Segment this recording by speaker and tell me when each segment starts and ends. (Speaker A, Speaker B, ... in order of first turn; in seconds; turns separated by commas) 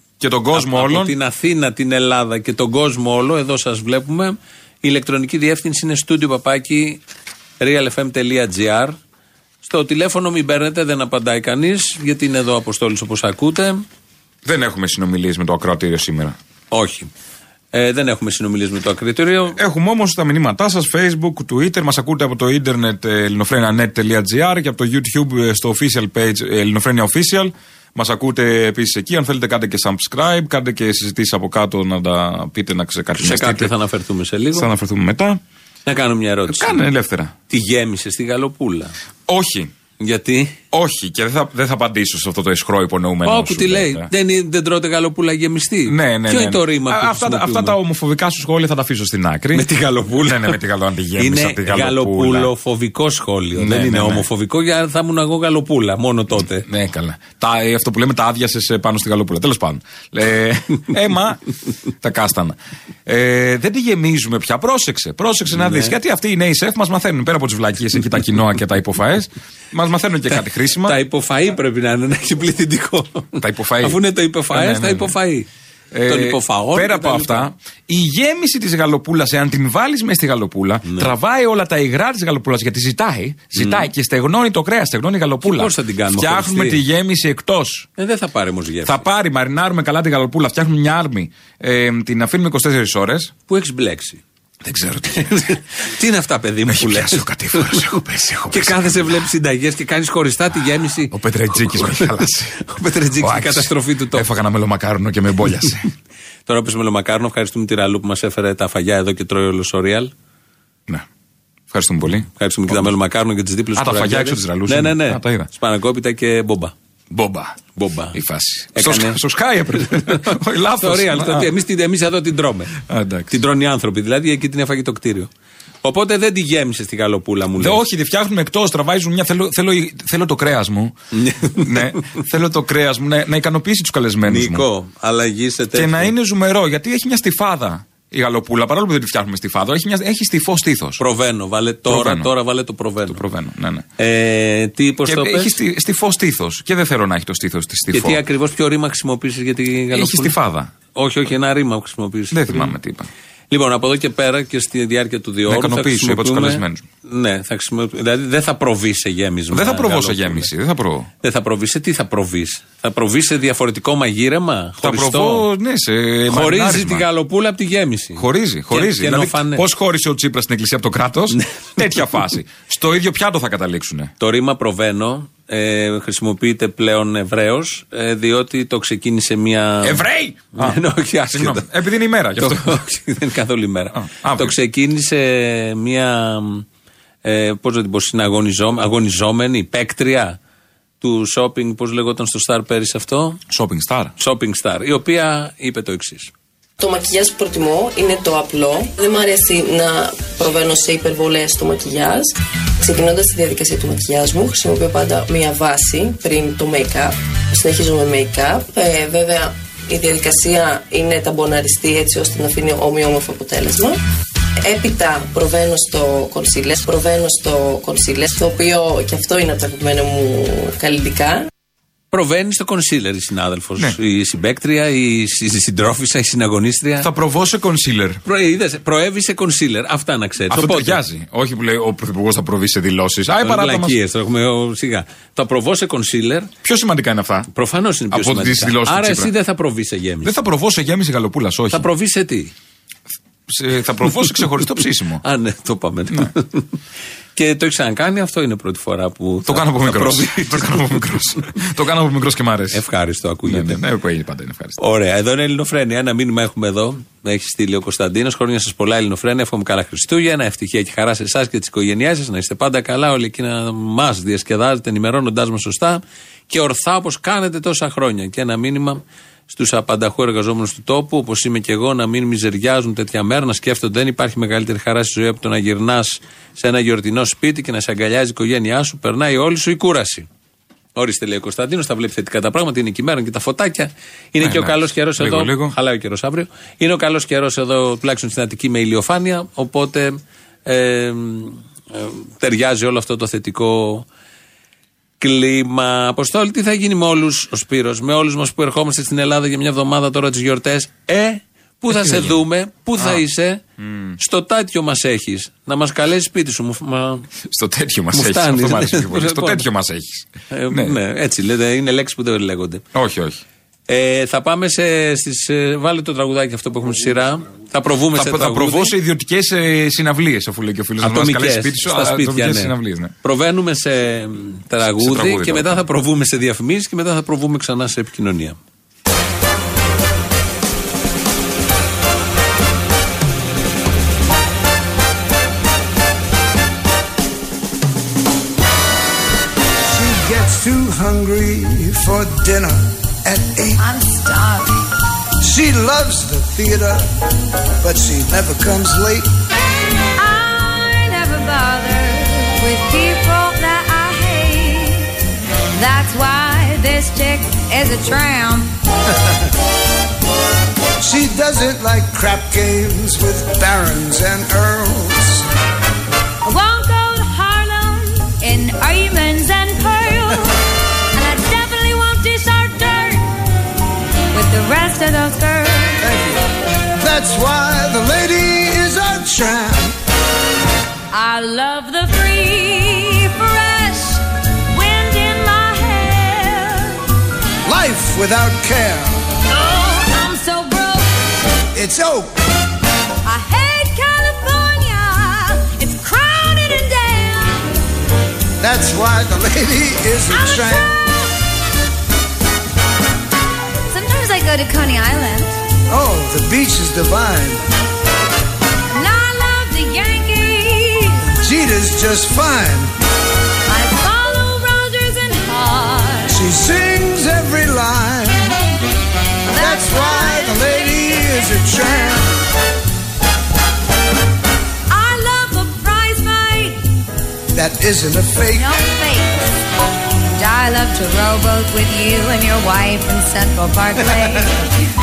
Speaker A: 0.2-1.1, Speaker B: 0.5-7.0, Speaker B: 7.6-9.0, Speaker B: 9.6-13.8, Speaker A: 14.4-16.4, Speaker B: 16.7-17.1, Speaker B: 17.7-19.6, Speaker A: 19.6-33.7, Speaker B: 33.2-34.7, Speaker A: 34.5-35.4, Speaker B: 35.9-36.8, Speaker A: 36.5-37.3, Speaker B: 37.5-38.9, Speaker A: 39.3-39.7, Speaker B: 40.0-40.6, Speaker A: 40.7-44.1, Speaker B: 43.2-47.8, Speaker A: 45.9-52.5, Speaker B: 49.5-50.6, Speaker B: 51.2-56.6, Speaker A: 53.5-54.3, Speaker A: 56.3-61.4, Speaker A: 62.0-71.0, Speaker B: 65.5-65.9, Speaker B: 70.8-75.5, Speaker A: 73.4-75.1, Speaker A: 75.9-87.9, Speaker B: 76.0-77.5, Speaker B: 80.8-81.1, Speaker B: 83.5-83.9, Speaker B: 85.5-86.8, Speaker B: 88.0-89.0, Speaker A: 88.8-93.3, Speaker B: 93.5-94.2, Speaker A: 94.6-95.6, Speaker B: 95.2-97.9, Speaker A: 96.7-99.3, Speaker B: 98.5-104.3, Speaker A: 101.0-102.6, Speaker A: 103.1-105.9, Speaker B: 106.5-110.1, Speaker A: 111.7-112.9, Speaker B: 112.3-116.7, Speaker A: 113.7-115.5, Speaker A: 117.1-117.6, Speaker B: 117.8-118.2, Speaker A: 118.1-121.5, Speaker B: 118.7-119.2, Speaker B: 119.8-125.3, Speaker A: 122.9-123.4, Speaker B: 125.8-127.8, Speaker A: 127.6-130.9, Speaker B: 131.1-132.2, Speaker A: 131.5-134.7, Speaker B: 134.2-136.1, Speaker A: 135.7-141.0, Speaker B: 141.0-143.2, Speaker A: 141.8-142.3, Speaker A: 143.1-143.8, Speaker B: 144.0-145.6, Speaker A: 145.0-148.2, Speaker B: 147.9-150.3, Speaker A: 149.9-150.7, Speaker B: 150.9-152.7, Speaker A: 152.3-153.1, Speaker B: 153.5-160.5, Speaker A: 155.5-156.8, Speaker A: 159.5-161.1, Speaker B: 161.2-165.4, Speaker A: 164.8-167.0, Speaker B: 166.3-169.6, Speaker A: 168.2-174.1, Speaker B: 171.3-172.1, Speaker B: 174.2-181.7, Speaker A: 179.8-182.8, Speaker B: 182.4-186.7, Speaker A: 183.9-184.6, Speaker B: 187.2-190.4, Speaker B: 191.0-193.4, Speaker A: 193.5-194.1, Speaker B: 194.2-196.3, Speaker C: 196.8-214.0, Speaker C: 214.6-221.5, Speaker B: 222.1-227.1, Speaker A: 227.0-228.2, Speaker B: 228.2-231.0, Speaker A: 230.5-234.0, Speaker B: 233.4-236.5, Speaker A: 236.6-237.5, Speaker B: 237.5-240.3, Speaker A: 238.1-239.3, Speaker A: 240.2-241.8, Speaker B: 241.7-242.5, Speaker A: 243.5-245.2, Speaker B: 245.2-246.7, Speaker B: 247.3-251.4, Speaker A: 249.4-252.8, Speaker B: 252.7-253.8, Speaker A: 253.4-254.8, Speaker B: 254.8-280.3, Speaker B: 280.9-294.1, Speaker A: 284.4-285.7, Speaker B: 295.2-303.6, Speaker A: 301.9-302.4, Speaker A: 302.9-303.2, Speaker A: 303.8-304.2, Speaker B: 304.2-307.3, Speaker A: 307.4-311.0, Speaker B: 308.1-309.7, Speaker B: 310.5-312.8, Speaker A: 312.9-313.4, Speaker B: 313.9-318.9, Speaker A: 318.1-323.1, Speaker B: 321.0-328.6, Speaker A: 324.8-325.8, Speaker D: 339.9-343.8, Speaker E: 343.8-344.9, Speaker D: 345.4-347.1, Speaker D: 347.8-349.3, Speaker E: 350.1-355.1, Speaker E: 355.7-358.7, Speaker D: 361.0-365.4, Speaker E: 366.4-373.4, Speaker E: 374.3-376.1, Speaker D: 376.0-376.4, Speaker D: 377.0-380.0, Speaker E: 381.1-387.0, Speaker D: 387.6-389.2, Speaker E: 389.5-391.2, Speaker D: 391.7-392.3, Speaker E: 393.2-397.7, Speaker D: 398.6-401.0, Speaker E: 400.3-401.3, Speaker E: 403.9-405.6, Speaker D: 405.9-407.6, Speaker E: 408.9-411.2, Speaker D: 411.3-412.9, Speaker E: 413.7-416.5, Speaker D: 416.3-418.6, Speaker E: 419.5-422.3, Speaker D: 419.5-422.4, Speaker E: 424.9-426.8, Speaker D: 427.5-428.8, Speaker E: 428.5-429.4, Speaker E: 430.3-434.7, Speaker D: 434.0-434.5